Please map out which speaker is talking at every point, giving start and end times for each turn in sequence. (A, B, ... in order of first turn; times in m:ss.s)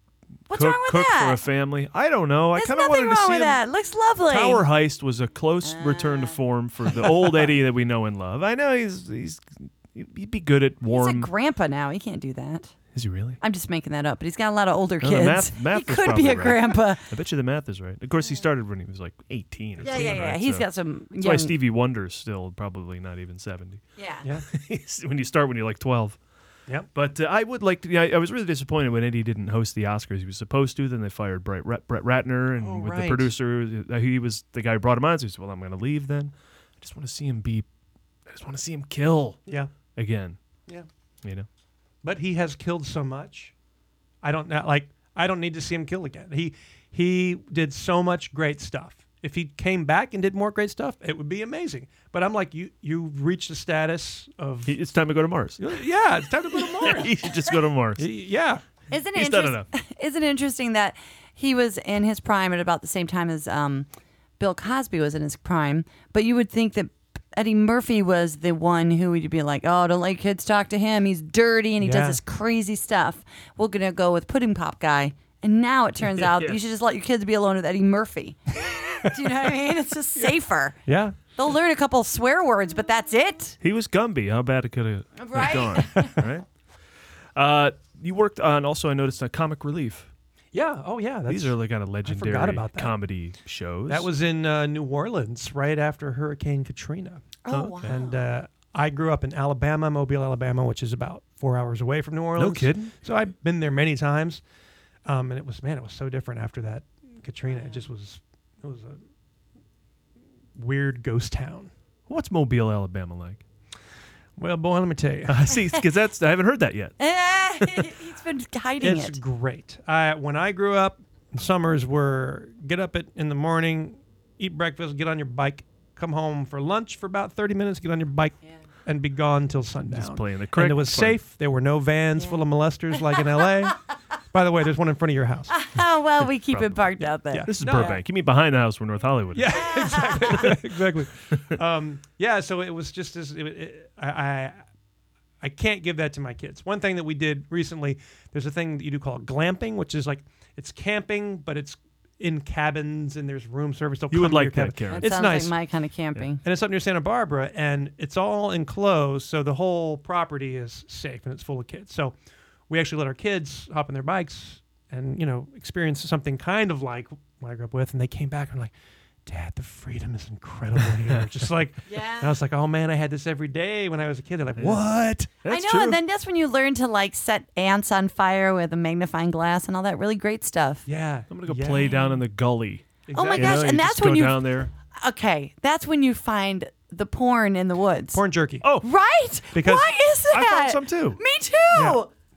0:00.5-0:01.4 A
0:00.5-0:03.6 B
0:02.5-0:04.6 A
0:04.3-0:11.3 B
0:05.6-0:06.4 A
0:10.9-0:12.7 A
0:12.9-0:13.4 B
0:13.4-0:17.0 A
0:15.0-0:23.8 B
0:18.2-0:18.4 A
0:19.8-0:21.5 A
0:24.0-0:24.3 A
0:24.5-0:26.2 B
0:26.9-0:37.6 B
0:32.6-0:33.3 C
0:38.3-0:39.4 B
0:39.4-0:39.7 C
0:39.9-0:40.4 B
0:42.0-0:43.5 C
0:44.2-0:54.7 C
0:54.6-0:55.7 B
0:55.6-0:57.1 C
0:56.8-0:58.0 B
0:58.0-0:58.6 C
0:58.9-1:03.9 A
0:59.1-0:59.6 B
1:04.4-1:18.4 A
1:11.8-1:12.2 C
1:16.2-1:16.6 B
1:19.0-1:20.8 A
1:20.8-1:21.3 C
1:21.3-1:23.6 A
1:23.6-1:26.4 B
1:25.2-1:26.2 A
1:27.3-1:30.1 B
1:30.5-1:32.9 C
1:31.3-1:34.1 B
1:33.9-1:37.2 C
1:37.4-1:38.2 A
1:37.5-1:38.0 B
1:37.8-1:44.4 C
1:42.3-1:42.9 B
1:45.0-1:49.0 C
1:47.5-1:47.8 A
1:50.6-1:51.7 C
1:52.1-1:53.4 B
1:54.4-1:55.4 C
1:55.2-1:56.9 B
1:57.0-1:59.2 A
1:58.8-2:13.8 C
2:09.9-2:11.2 B
2:14.3-2:15.5 C
2:15.5-2:18.0 A
2:16.5-2:19.7 B
2:17.3-2:18.0 C
2:19.3-2:24.6 C
2:19.5-2:20.5 A
2:20.3-2:20.6 B
2:25.4-2:35.5 C
2:34.1-2:35.1 B
2:34.9-2:36.4 A
2:36.4-2:42.1 C
2:42.7-2:48.7 C
2:49.2-2:55.0 C
2:51.9-2:52.3 A
2:54.6-2:56.0 B
2:55.5-3:00.8 A
3:00.8-3:02.0 C
3:01.3-3:04.7 B
3:01.8-3:02.2 A
3:03.1-3:03.8 C
3:03.1-3:04.4 A
3:05.0-3:08.2 A
3:08.1-3:08.7 C
3:08.6-3:08.9 B
3:08.8-3:12.1 A
3:09.5-3:09.9 C
3:10.3-3:11.2 B
3:11.7-3:12.0 C